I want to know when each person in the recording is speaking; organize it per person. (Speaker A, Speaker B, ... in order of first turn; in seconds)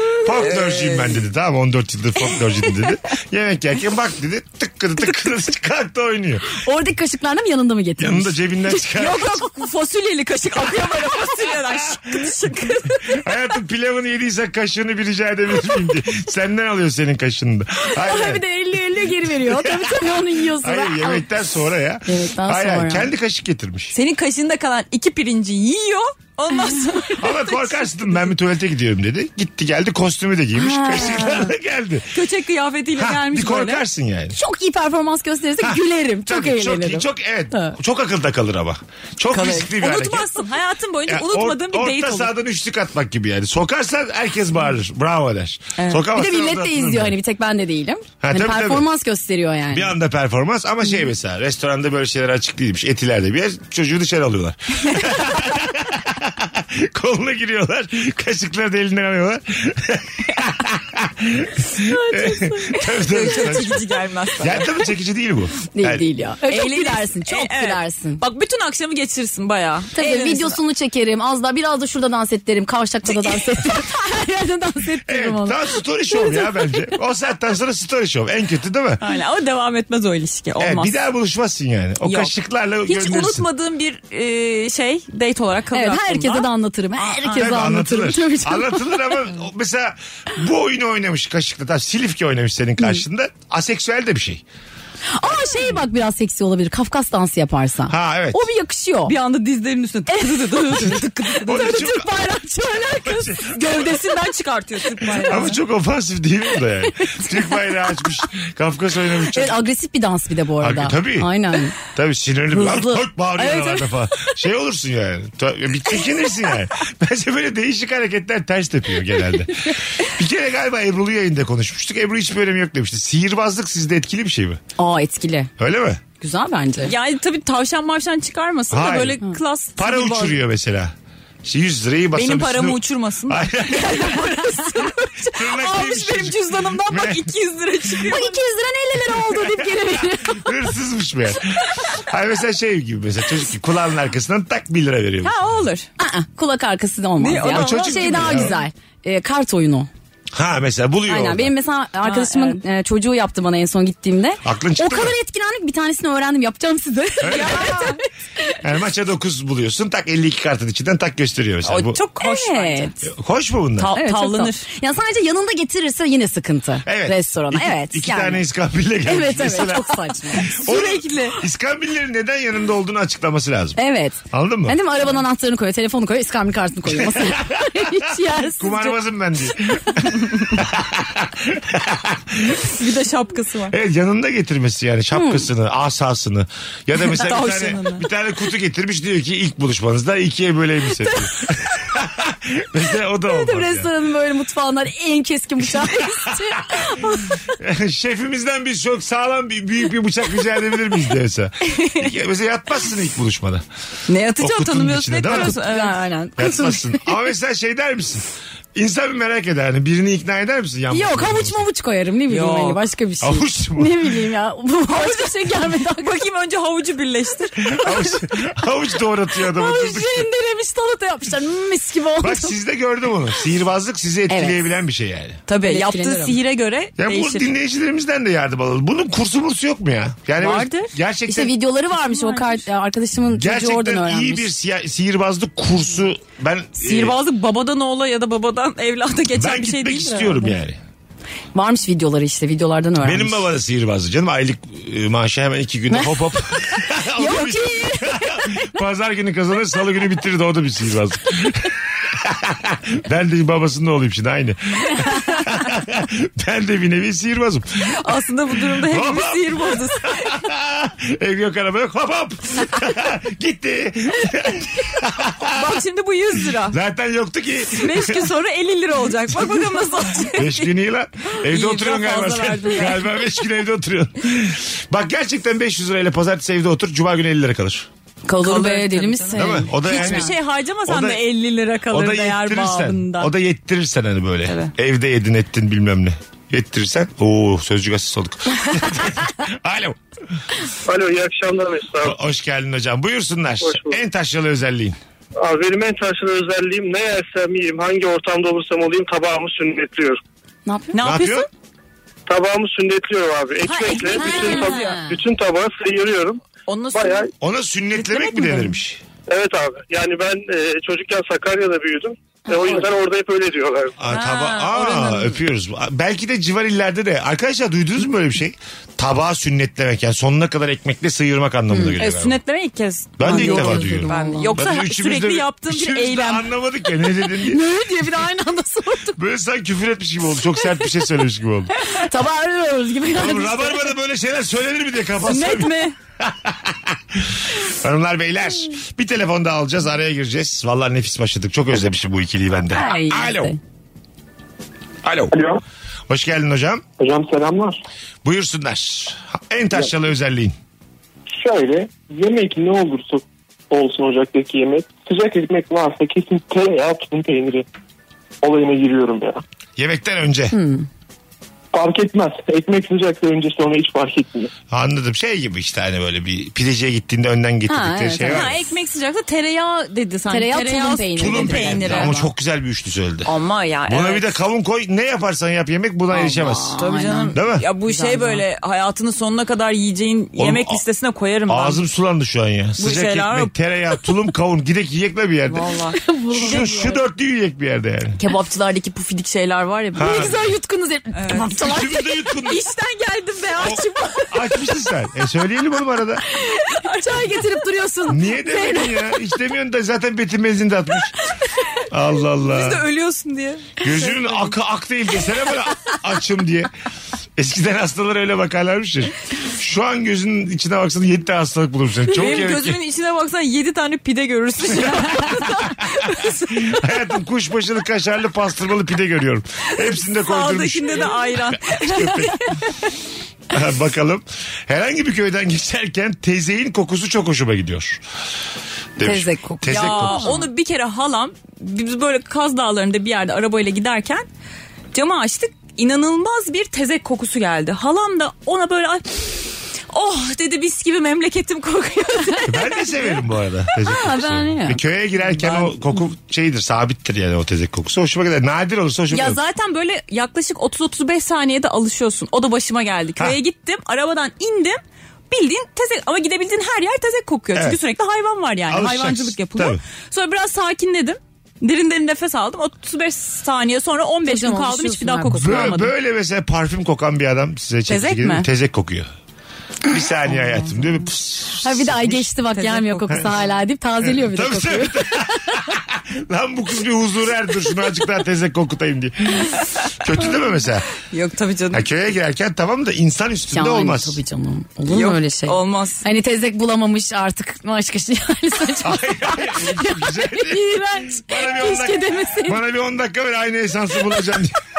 Speaker A: 0.2-6.6, 8.0-9.4, 13.1-18.4, 19.2-23.9, 27.2-32.1, 33.0-34.4, 35.6-40.3, 41.1-47.1, 48.2-48.9, 49.7-66.0, 75.1-79.0, 80.6-83.5, 87.3-94.4, 97.9-98.5, 101.5-102.1, 103.0-103.6, 105.2-109.6, 110.6-111.3, 111.8-124.6, 125.6-126.0, 128.7-129.2, 129.8-130.9, 131.4-134.3, 135.3-137.3, 139.2-145.4, 147.4-148.6, 150.3-151.5, 154.4-155.2, 157.2-157.8, 158.6-162.0, 163.1-163.9, 166.8-170.0, 170.6-173.8, 174.3-174.8, 176.9-178.0, 178.6-182.6, 183.7-193.9, 195.6-196.9, 197.6-203.6, 204.4-205.6, 206.4-211.7, 213.2-214.1, 217.7-220.3, 222.2-225.4, 227.0-231.5, 233.3-237.2, 239.3-240.8, 243.0-258.0, 258.6-265.8, 266.7-268.3, 270.3-277.9, 279.4-280.4, 280.9-281.2, 281.9-290.0, 292.0-295.0, 301.0-301.5, 307.4-309.0, 314.0-322.4, 323.2-327.6, 329.1-331.7, 333.1-343.5, 345.0-345.4, 346.1-346.8, 348.2-350.6, 359.8-360.6, 364.7-368.6, 371.2-373.3, 373.9-376.8, 377.3-377.6, 380.4-380.8, 381.5-385.7, 386.3-388.2, 390.0-390.5, 391.5-392.6, 393.6-396.2, 398.1-401.1, 401.9-402.9, 403.8-406.7, 407.4-412.8, 414.7-415.5, 416.5-422.5, 423.5-428.0, 429.0-430.3, 442.5-449.4, 458.7-459.8, 465.4-469.1, 469.8-472.3, 474.1-480.9, 481.7-484.2, 488.8-494.6
Speaker B: 0.3-1.2, 8.9-13.3, 23.9-27.8, 32.1-33.8, 39.3-42.3, 45.8-46.0, 61.9-64.7, 66.5-70.6, 73.2-73.8, 79.0-81.0, 82.0-82.3, 82.9-86.5, 87.1-87.6, 99.1-102.1, 103.5-105.6, 126.8-130.4, 132.1-138.4, 145.2-145.9, 147.2-148.6, 152.0-152.6, 157.2-158.0, 161.7-163.0, 163.8-164.6, 170.4-171.4, 182.7-183.8, 187.0-188.1, 204.1-206.2, 212.3-212.8, 214.9-217.7, 225.5-227.5, 230.4-230.9, 232.0-232.6, 236.8-240.5, 257.9-260.4, 265.5-266.8, 267.8-270.7, 271.4-273.3, 278.4-283.3, 300.9-301.5, 303.6-305.0, 306.7-307.3, 307.9-308.8, 314.1-315.4, 322.0-326.5, 335.3-335.9, 368.3-372.2, 373.3-374.4, 376.8-381.8, 382.8-383.5, 385.5-386.0, 391.1-391.9, 392.4-394.3, 396.8-397.6, 402.4-404.6, 412.1-416.8, 420.2-422.5, 429.7-434.3, 434.9-439.3, 439.9-443.2, 449.1-465.9, 467.9-468.5, 472.6-473.3, 481.1-481.9, 484.9-486.1
Speaker C: 6.5-8.8, 17.9-21.2, 22.1-23.1, 30.6-31.5, 34.3-37.8, 46.1-49.9, 65.7-68.2, 70.0-75.6, 85.7-89.1, 95.1-99.1, 100.1-104.0, 109.3-111.8, 112.5-113.8, 124.8-125.5, 126.2-126.9, 138.1-140.5, 146.0-149.9, 151.1-158.5, 162.2-162.9, 164.0-168.4, 169.1-170.6, 173.8-179.0, 185.1-185.5, 193.3-197.3, 205.3-207.1, 210.9-216.1, 219.5-222.5, 224.3-224.6, 225.5-226.4, 231.3-234.5, 241.6-243.4, 246.8-248.4, 278.3-280.3, 300.7-300.9, 304.1-305.1, 323.2-324.5, 327.4-329.2, 331.8-333.9, 342.7-343.6, 360.5-360.9, 367.7-368.5, 370.3-372.3, 376.1-378.4, 386.0-387.0, 388.2-392.1, 396.4-399.0, 429.0-430.4, 443.8-444.8, 464.2-465.7, 471.6-475.5, 483.5-492.6
Speaker D: 290.9-292.1, 293.6-294.0, 295.4-300.2, 302.3-306.4, 306.9-307.3, 309.3-314.0
Speaker E: 345.3-345.6, 347.0-347.8, 351.3-357.7, 358.4-359.4, 361.7-364.5